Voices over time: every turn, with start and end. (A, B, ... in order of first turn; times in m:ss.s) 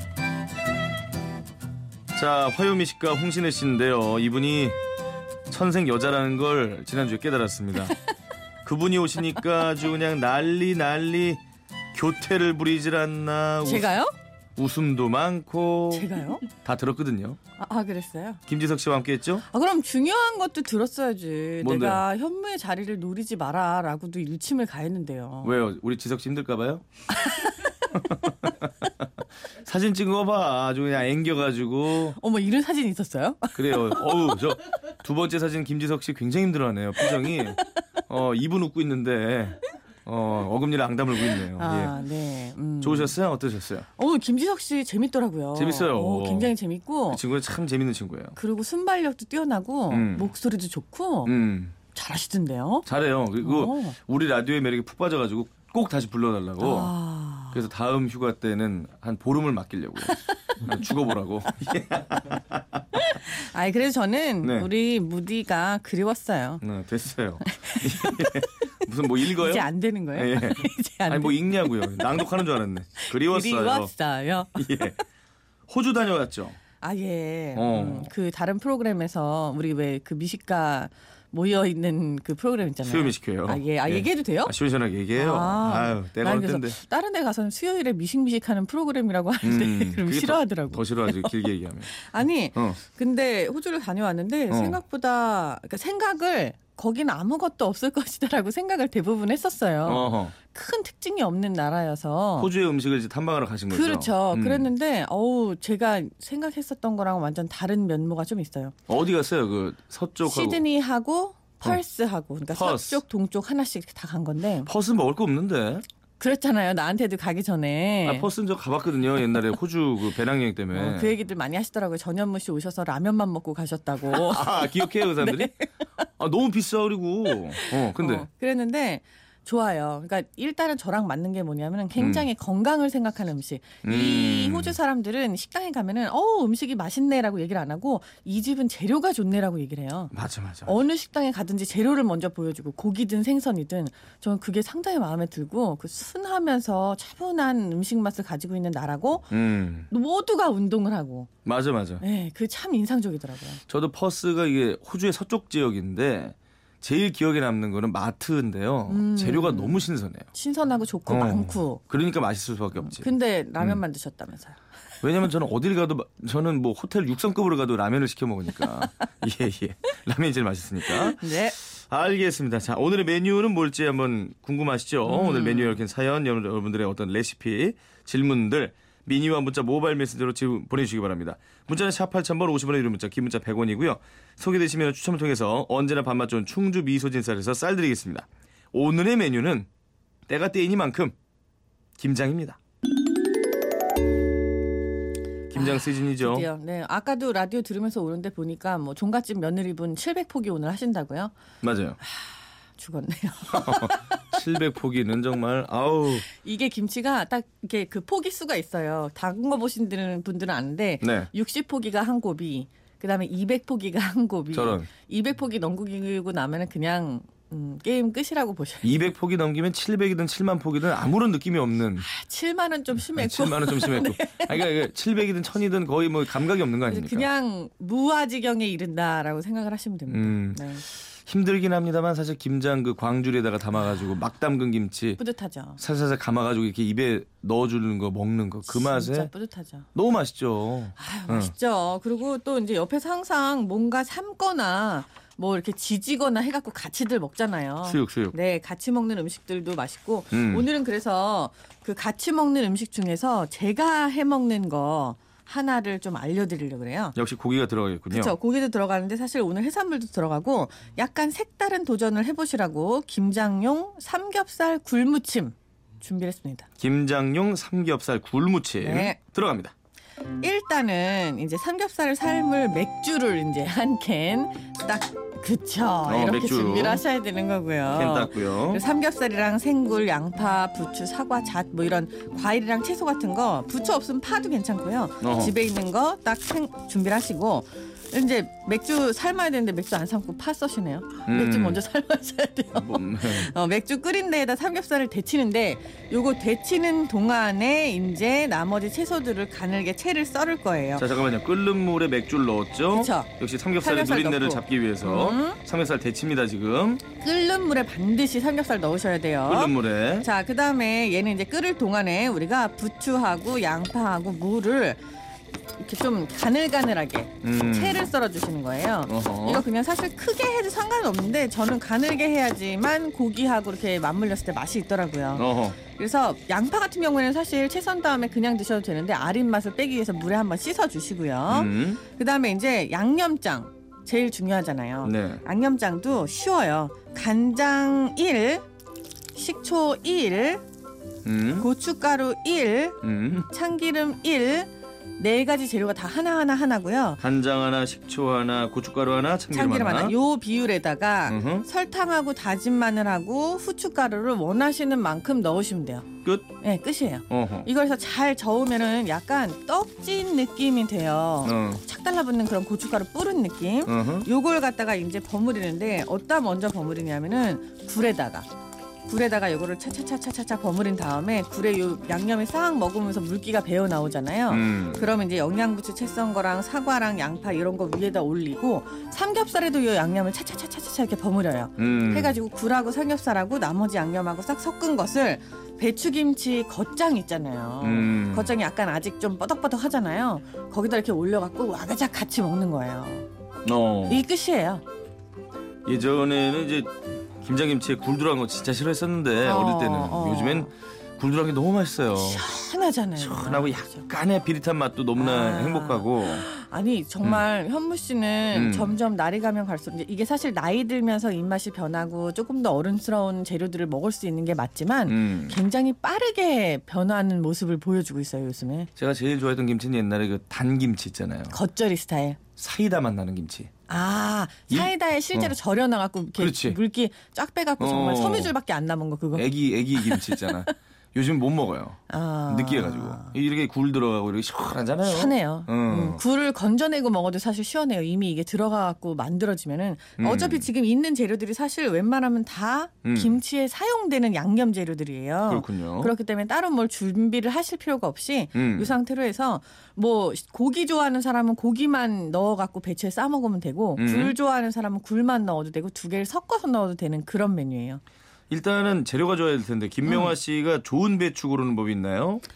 0:02.1-0:04.8 A
0:05.5-0:08.0 A
0:08.6-0:11.4 A
0:11.9-0:13.9 A
0:13.6-0:14.1 B
0:14.6-0:17.4 A
0:15.9-0:16.4 B
0:17.6-0:18.4 B
0:18.5-0:19.4 A
0:19.5-0:25.6 B
0:21.6-0:22.0 A
0:25.4-0:26.8 A
0:27.2-0:27.7 B
0:27.9-0:28.9 A
0:29.6-0:32.2 A
0:32.1-0:34.4 B
0:33.6-0:42.0 A
0:37.0-0:37.4 B
0:41.3-0:43.2 B
0:42.8-0:43.9 A
0:44.0-0:47.2 B
0:45.6-0:46.5 A
0:47.1-0:48.4 A
0:48.4-0:51.3 B
0:49.9-0:50.3 A
0:51.3-0:51.7 A
0:51.9-0:52.9 B
0:52.9-0:56.9 A
0:53.4-0:54.0 B
0:56.6-0:57.6 B
0:57.5-1:02.6 A
1:02.9-1:06.6 B
1:04.4-1:04.7 A
1:06.6-1:13.9 A
1:07.4-1:08.6 B
1:09.2-1:12.3 B
1:13.0-1:14.9 B
1:14.6-1:15.0 A
1:15.7-1:16.6 A
1:16.8-1:24.6 B
1:17.6-1:18.1 A
1:22.9-1:26.8 A
1:25.2-1:42.5 B
1:29.4-1:31.9 A
1:34.5-1:34.8 A
1:39.8-1:40.3 A
1:42.4-1:44.7 A
1:43.7-1:48.8 B
1:48.9-1:50.6 A
1:50.2-1:54.7 B
1:52.5-1:53.0 A
1:54.7-1:55.8 A
1:56.2-1:58.3 B
1:58.1-2:01.1 A
2:00.7-2:05.7 B
2:04.1-2:05.5 A
2:06.2-2:08.3 A
2:07.5-2:20.1 B
2:12.0-2:12.2 A
2:13.8-2:14.8 A
2:20.1-2:20.7 A
2:20.7-2:29.3 B
2:29.3-2:29.9 A
2:29.9-2:31.3 B
2:31.4-2:32.0 A
2:32.0-2:33.6 B
2:33.7-2:40.3 A
2:38.9-2:41.8 B
2:41.1-2:43.1 A
2:42.8-2:44.6 B
2:45.0-3:09.7 A
2:50.8-2:51.6 B
2:55.1-2:55.8 B
3:10.3-3:11.2 A
3:12.0-3:12.6 A
3:15.5-3:16.5 A
3:15.5-3:21.3 B
3:21.6-3:22.0 A
3:22.0-3:24.3 B
3:23.5-3:26.3 A
3:26.3-3:39.0 B
3:31.0-3:31.3 A
3:34.5-3:34.9 A
3:38.8-3:42.1 A
3:42.0-3:44.7 B
3:43.2-3:47.3 A
3:46.9-3:50.8 B
3:50.1-3:50.7 A
3:51.3-3:55.2 A
3:55.2-3:55.8 B
3:55.8-3:59.3 A
3:58.7-3:59.9 B
4:00.0-4:01.5 A
4:01.0-4:17.2 B
4:07.8-4:08.4 A
4:10.3-4:10.7 A
4:17.2-4:18.4 A
4:18.1-4:26.7 B
4:26.8-4:29.7 A
4:28.8-4:29.2 B
4:30.4-5:01.1 B
4:36.1-4:37.0 A
4:37.9-4:38.8 A
4:45.2-4:45.5 A
4:51.3-4:51.8 A
4:52.8-4:53.5 A
5:01.0-5:07.0 A
5:02.9-5:03.3 B
5:03.8-5:05.6 B
5:07.2-5:15.0 B
5:09.5-5:10.3 A
5:15.8-5:38.6 B
5:17.4-5:18.1 A
5:19.1-5:19.6 A
5:25.4-5:25.8 A
5:31.5-5:32.0 A
5:35.0-5:35.4 A
5:39.3-5:40.6 B
5:41.2-5:41.7 A
5:41.6-5:47.2 B
5:43.0-5:43.5 A
5:47.2-5:50.2 A
5:49.5-6:08.5 B
5:51.3-5:51.7 A
5:56.2-5:56.5 A
5:57.3-5:57.7 A
6:01.4-6:01.8 A
6:03.9-6:04.3 A
6:09.1-6:33.3 B
6:14.5-6:15.1 A
6:21.8-6:22.3 A
6:27.8-6:28.5 A
6:33.6-6:34.2 A
6:34.1-6:34.8 B
6:35.9-6:42.4 A
6:39.4-6:40.7 B
6:42.1-6:43.9 B
6:43.2-6:46.4 A
6:45.2-6:58.9 B
6:48.5-6:49.0 A
6:55.1-6:55.6 A
6:59.0-7:01.6 A
7:01.5-7:02.4 B
7:02.6-7:03.7 A
7:03.9-7:10.7 B
7:04.7-7:05.5 A
7:06.4-7:06.8 A
7:07.8-7:08.5 A
7:09.4-7:16.2 A
7:12.1-7:13.3 B
7:15.0-7:38.0 B
7:20.2-7:20.7 A
7:23.0-7:23.4 A
7:25.5-7:26.1 A
7:28.6-7:28.9 A
7:34.0-7:34.4 A
7:38.5-7:42.4 A
7:40.1-7:40.3 B